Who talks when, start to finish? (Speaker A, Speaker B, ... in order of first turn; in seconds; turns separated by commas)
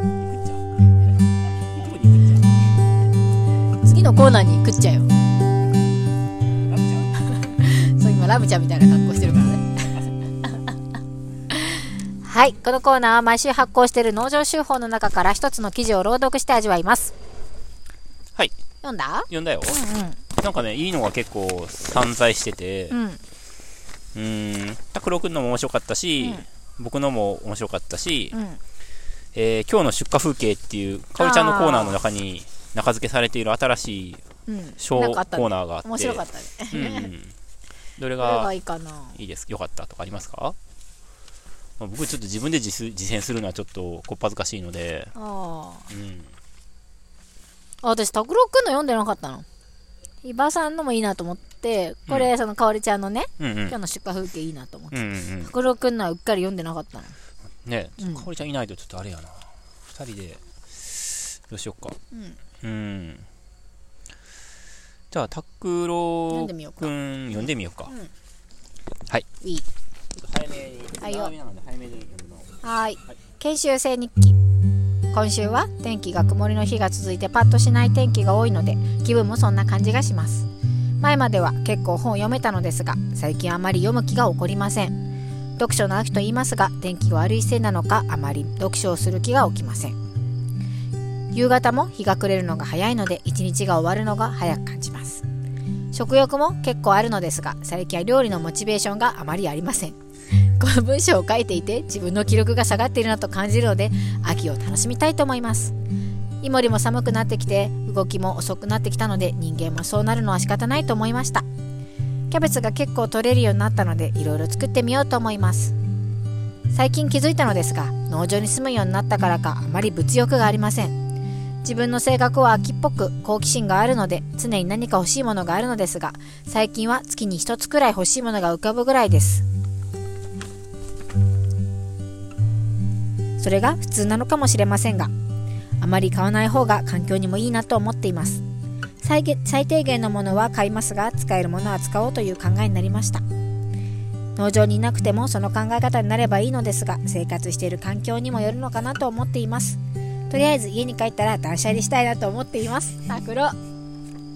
Speaker A: 0.2-0.7, Speaker A: 1.7-2.5, Speaker B: 3.8-5.1, Speaker B: 7.2-10.1, Speaker B: 11.5-17.1, Speaker B: 18.8-20.2, Speaker A: 19.3-19.8, Speaker A: 20.4-23.0, Speaker B: 22.9-23.2, Speaker A: 24.1-28.4, Speaker B: 26.2-26.5, Speaker B: 28.3-28.6, Speaker A: 29.3-34.2, Speaker B: 31.2-32.0, Speaker B: 34.5-37.1, Speaker A: 34.8-37.4, Speaker A: 38.0-38.5, Speaker B: 38.2-39.2, Speaker A: 39.2-40.6, Speaker A: 41.8-45.1, Speaker B: 45.2-45.9, Speaker A: 45.9-46.3, Speaker B: 47.8-49.5, Speaker B: 50.2-57.2, Speaker A: 53.4-53.8, Speaker A: 54.9-55.5, Speaker A: 57.6-62.0, Speaker B: 58.0-58.3, Speaker B: 62.1-62.4, Speaker A: 62.6-63.3, Speaker A: 65.1-67.9, Speaker B: 66.3-68.1, Speaker B: 69.4-69.7, Speaker A: 70.2-72.5, Speaker B: 71.0-71.3, Speaker B: 72.6-74.4, Speaker B: 75.1-80.5, Speaker B: 81.0-85.0, Speaker B: 85.6-90.0, Speaker B: 91.3-95.2, Speaker B: 95.9-105.7, Speaker B: 106.4-111.5, Speaker B: 112.3-115.8, Speaker B: 116.7-121.0, Speaker B: 121.6-129.4, Speaker B: 133.4-135.1, Speaker B: 135.8-138.4, Speaker B: 139.0-143.2, Speaker B: 144.4-149.8, Speaker B: 150.3-153.6